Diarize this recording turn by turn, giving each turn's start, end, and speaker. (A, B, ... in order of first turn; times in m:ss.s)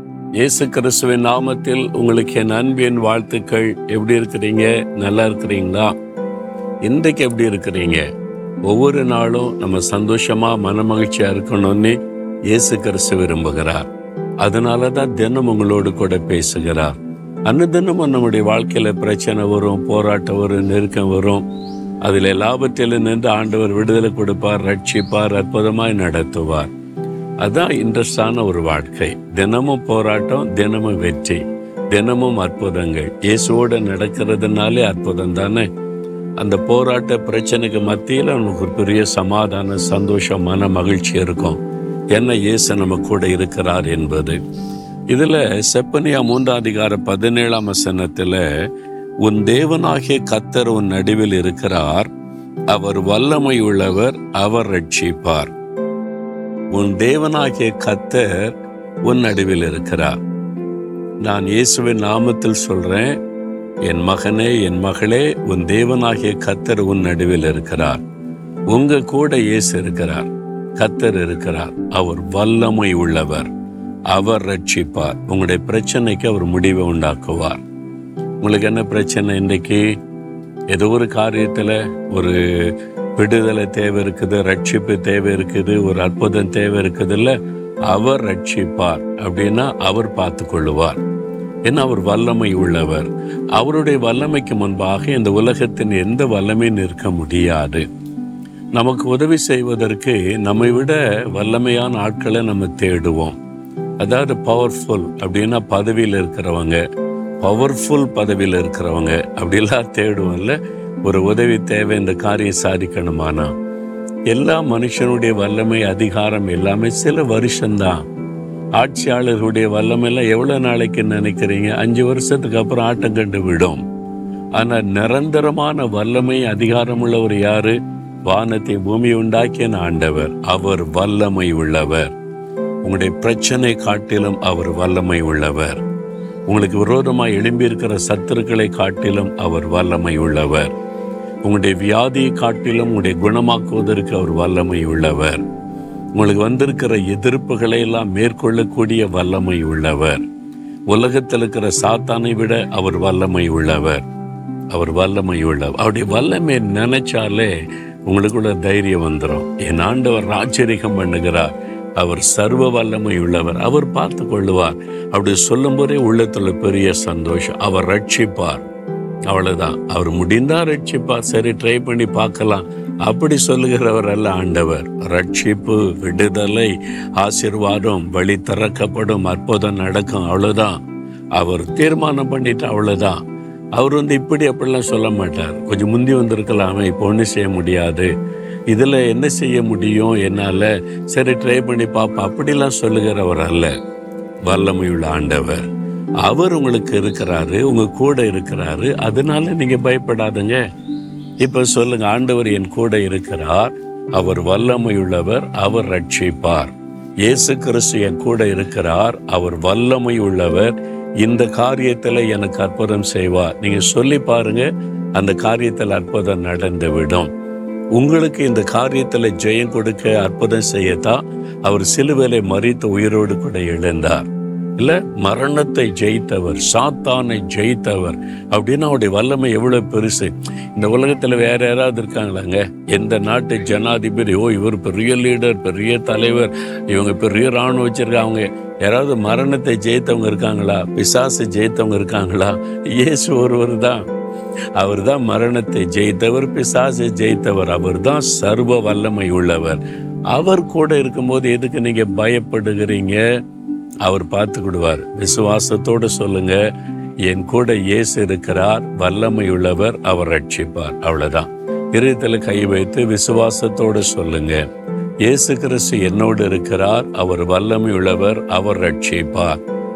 0:00.3-0:05.9 A
0:06.8-0:08.0 A
0:08.7-0:12.0 A
0:12.5-0:13.9 A
0:14.4-0:21.4 A
0:22.0-0:26.7 A
0:27.4-0:35.7 A
0:36.4-0:41.6 A
0:42.1-0:44.4 A
0:45.1-0:48.4 A
0:49.2-0:52.1 A
0:52.7-0:55.5 A
0:56.7-0:58.5 A
0:59.0-1:00.2 A
1:01.2-1:03.2 A
1:03.8-1:08.0 A
1:08.7-1:13.5 A
1:14.1-1:17.6 A
1:18.4-1:19.9 A
1:20.7-1:27.3 A
1:27.9-1:31.0 A
1:31.6-1:37.8 A
1:38.7-1:43.4 A
1:44.0-1:46.8 A
1:47.4-1:53.5 A
1:54.3-1:58.0 A
1:58.8-2:03.8 A
2:04.6-2:12.1 A
2:12.8-2:15.8 A
2:16.5-2:20.7 A
2:21.4-2:25.4 A
2:26.2-2:30.2 A
2:30.9-2:34.0 A
2:34.7-2:37.5 A
2:38.1-2:48.6 A
2:49.3-3:00.8 A
3:01.3-3:03.2 A
3:03.7-3:08.1 A
3:08.7-3:13.7 A
3:14.4-3:15.6 A
3:16.2-3:20.6 A
3:21.4-3:37.3 A
3:37.9-4:04.0 A
4:04.8-4:09.8 A
4:10.3-4:13.2 A
4:14.0-4:16.6 A
4:17.2-4:24.6 A
4:25.2-4:29.6 A